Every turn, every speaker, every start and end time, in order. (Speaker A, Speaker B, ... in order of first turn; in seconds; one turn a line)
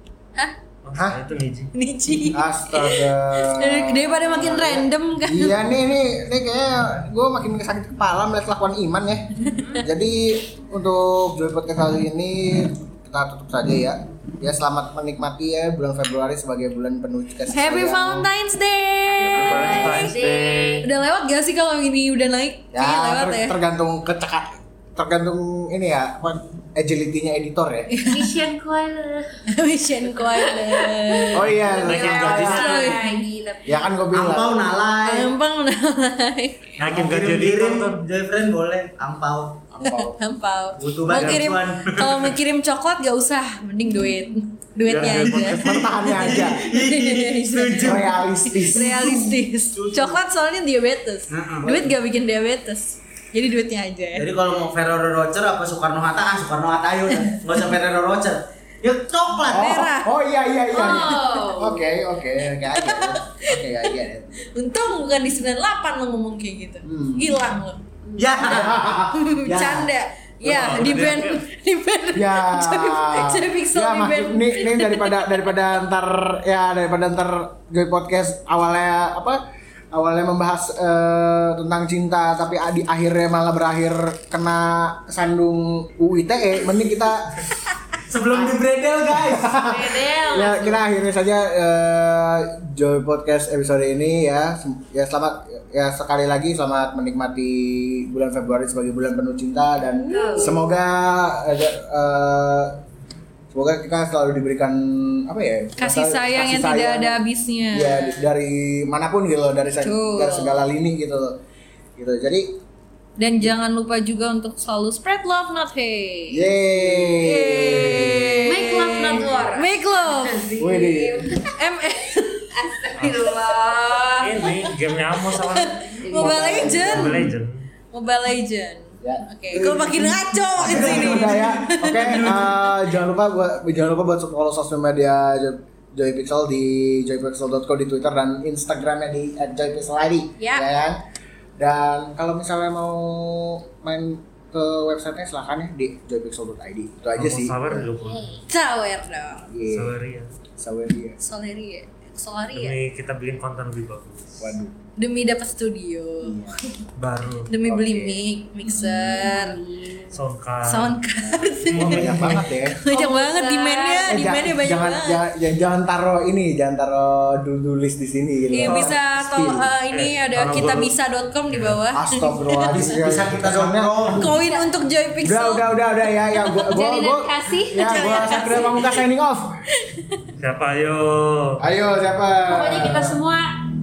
Speaker A: 0.8-1.7
Speaker B: 0.9-1.2
Speaker C: 1.7-5.7
Speaker B: 2.3-18.3
Speaker C: 9.5-9.8
Speaker C: 17.5-20.2
Speaker A: 19.2-20.8
Speaker D: 19.3-20.8
Speaker C: 20.8-23.6
Speaker B: 22.7-27.9
Speaker C: 27.9-28.3
Speaker D: 28.0-29.4
Speaker C: 29.5-33.2
Speaker D: 30.1-34.0
Speaker B: 31.3-32.8
Speaker A: 31.8-32.9
Speaker B: 33.6-34.7
Speaker E: 34.1-35.3
Speaker C: 35.0-36.8
Speaker A: 36.8-38.0
Speaker E: 36.8-39.6
Speaker B: 39.7-40.2
Speaker C: 39.8-54.3
Speaker E: 40.8-42.4
Speaker A: 41.1-41.4
Speaker A: 44.8-45.8
Speaker E: 45.0-48.0
Speaker B: 45.0-46.6
Speaker B: 47.8-49.0
Speaker E: 48.7-50.2
Speaker E: 51.3-52.0
Speaker E: 54.1-59.8
Speaker C: 57.1-57.4
Speaker B: 59.4-64.3
Speaker C: 59.5-60.1
Speaker C: 60.7-61.6
Speaker D: 60.7-61.9
Speaker C: 62.5-63.9
Speaker C: 64.4-67.8
Speaker B: 66.8-67.4
Speaker D: 68.0-68.5
Speaker E: 68.2-69.0
Speaker B: 68.4-69.9
Speaker C: 69.1-75.4
Speaker B: 70.4-71.1
Speaker A: 70.5-71.4
Speaker B: 72.1-79.4
Speaker B: 79.9-87.5
Speaker E: 88.1-89.6
Speaker B: 88.3-88.6
Speaker B: 89.1-102.8
Speaker D: 89.6-90.8
Speaker C: 100.0-100.5
Speaker D: 100.1-100.6
Speaker B: 103.5-107.2
Speaker C: 105.8-108.3
Speaker B: 107.7-111.3
Speaker C: 109.8-110.6
Speaker B: 112.0-112.5
Speaker C: 113.2-116.5
Speaker B: 116.3-118.4
Speaker C: 117.2-120.5
Speaker D: 118.4-121.4
Speaker B: 120.6-121.3
Speaker C: 121.5-122.5
Speaker D: 122.5-124.7
Speaker A: 123.0-123.3
Speaker A: 124.2-125.9
Speaker C: 124.5-127.3
Speaker D: 126.0-126.8
Speaker B: 126.1-127.3
Speaker A: 126.7-127.7
Speaker C: 127.9-132.7
Speaker B: 129.0-141.0
Speaker E: 130.6-132.6
Speaker C: 140.4-140.6
Speaker B: 141.6-147.9
Speaker A: 147.2-148.3
Speaker C: 148.5-149.5
Speaker B: 149.5-150.0
Speaker A: 149.7-150.3
Speaker B: 150.6-151.2
Speaker C: 151.2-152.8
Speaker A: 152.5-154.6
Speaker B: 154.4-154.8
Speaker C: 155.0-156.8
Speaker B: 156.2-156.6
Speaker A: 157.0-157.5
Speaker C: 157.5-159.6
Speaker B: 157.6-159.3
Speaker D: 159.1-160.2
Speaker A: 160.1-161.0
Speaker C: 160.6-165.2
Speaker B: 161.4-162.8
Speaker E: 161.7-162.4
Speaker D: 162.9-164.2
Speaker B: 164.0-169.7
Speaker C: 168.5-173.0
Speaker E: 168.6-168.9
Speaker A: 169.9-170.9
Speaker A: 171.5-171.8
Speaker B: 171.9-174.3
Speaker E: 172.7-174.2
Speaker C: 174.1-175.8
Speaker B: 175.2-179.6
Speaker C: 176.3-176.6
Speaker D: 176.6-178.4
Speaker C: 177.8-179.0
Speaker C: 179.8-180.2
Speaker A: 180.4-181.6
Speaker B: 181.6-183.2
Speaker D: 182.4-183.5